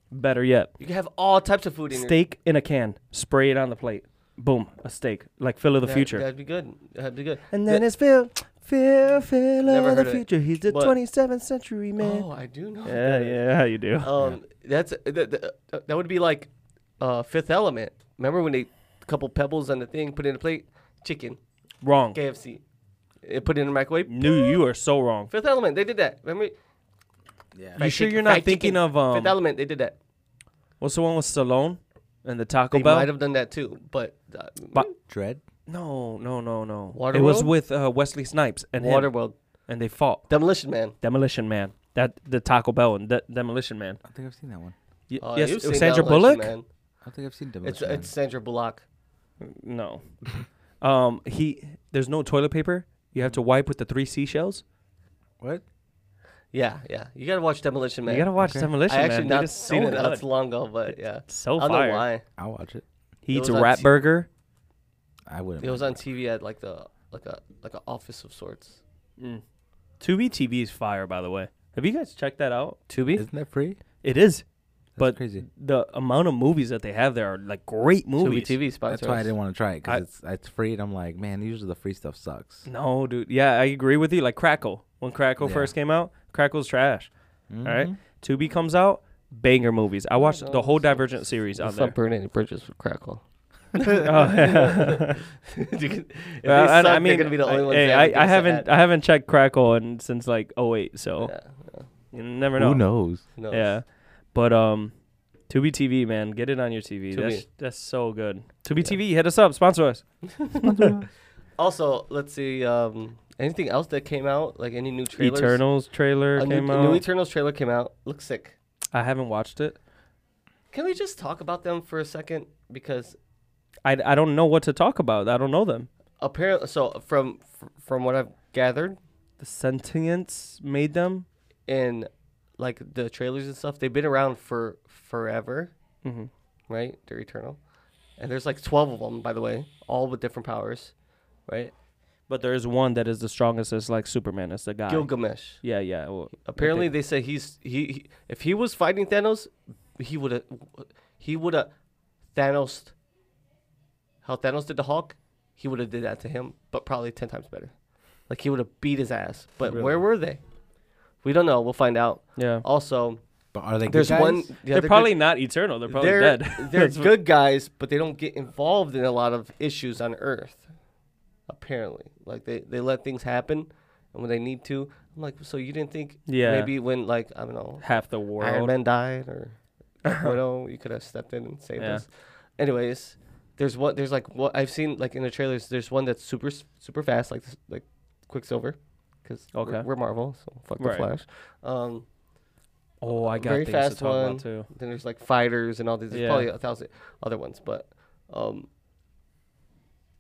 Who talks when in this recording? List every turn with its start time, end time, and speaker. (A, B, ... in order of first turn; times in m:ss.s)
0:00.1-0:00.7 A
0:00.8-0:02.2 B
0:01.9-0:06.2 A
0:05.8-0:07.9 B
0:07.5-0:12.3 A
0:09.6-0:11.0 B
0:12.0-0:21.4 B
0:12.8-0:14.1 A
0:21.8-0:22.2 A
0:22.1-0:22.6 B
0:23.2-0:24.6 B
0:24.1-0:25.3 A
0:25.3-0:26.5 B
0:27.6-0:27.8 C
0:27.8-0:30.0 B
0:27.8-0:29.4 A
0:30.8-0:33.1 A
0:32.7-0:34.9 B
0:35.1-0:35.4 C
0:35.7-0:39.1 A
0:36.9-0:37.5 B
0:38.8-0:39.4 B
0:39.7-0:40.3 A
0:40.3-0:41.0 B
0:41.0-0:44.0 A
0:44.1-0:44.8 C
0:45.1-0:46.5 A
0:45.2-0:46.7 B
0:47.0-0:48.1 C
0:47.6-0:48.8 B
0:49.4-0:50.0 A
0:50.8-0:54.6 A
0:56.5-0:58.3 B
0:58.1-1:00.2 A
0:58.4-0:58.7 C
0:58.9-1:02.2 B
1:00.9-1:02.0 A
1:02.4-1:02.8 C
1:03.2-1:04.3 A
1:03.3-1:03.9 B
1:05.3-1:06.0 C
1:05.6-1:08.8 B
1:10.0-1:12.8 A
1:12.9-1:13.2 B
1:13.2-1:13.8 C
1:14.0-1:14.4 A
1:15.0-1:15.4 C
1:15.0-1:18.6 A
1:18.2-1:19.3 B
1:18.9-1:22.6 C
1:22.7-1:27.1 A
1:25.4-1:25.7 C
1:27.5-1:28.0 C
1:27.6-1:32.0 A
1:30.2-1:33.2 B
1:33.8-1:38.7 B
1:33.9-1:35.2 A
1:36.5-1:41.3 A
1:41.2-1:41.9 B
1:42.1-1:44.9 A
1:42.6-1:43.2 C
1:43.4-1:43.8 B
1:45.5-1:51.0 A
1:47.1-1:47.4 B
1:50.6-1:51.1 C
1:51.6-1:55.6 B
1:55.2-1:57.0 A
1:56.4-1:58.6 B
1:58.9-1:59.8 A
2:00.7-2:03.2 B
2:03.8-2:05.9 A
2:06.2-2:09.0 B
2:09.4-2:11.3 A
2:11.7-2:15.7 B
2:16.0-2:16.3 A
2:16.7-2:17.6 B
2:18.2-2:20.9 B
2:21.5-2:21.7 B
2:22.3-2:26.9 A
2:24.9-2:25.6 B
2:26.4-2:31.7 B
2:32.3-2:32.9 B
2:34.2-2:37.7 B
2:38.3-2:40.4 B
2:39.6-2:40.0 C
2:41.2-2:43.2 B
2:42.4-2:42.6 A
2:43.5-2:44.5 C
2:43.9-2:45.2 B
2:44.7-2:47.1 A
2:45.9-2:50.7 B
2:51.5-3:12.1 B
2:56.3-2:56.7 A
2:57.8-2:58.7 A
3:00.1-3:00.3 A
3:01.8-3:02.0 A
3:09.5-3:09.9 A
3:10.8-3:11.1 A
3:13.0-3:14.7 A
3:13.1-3:18.7 B
3:16.1-3:16.5 A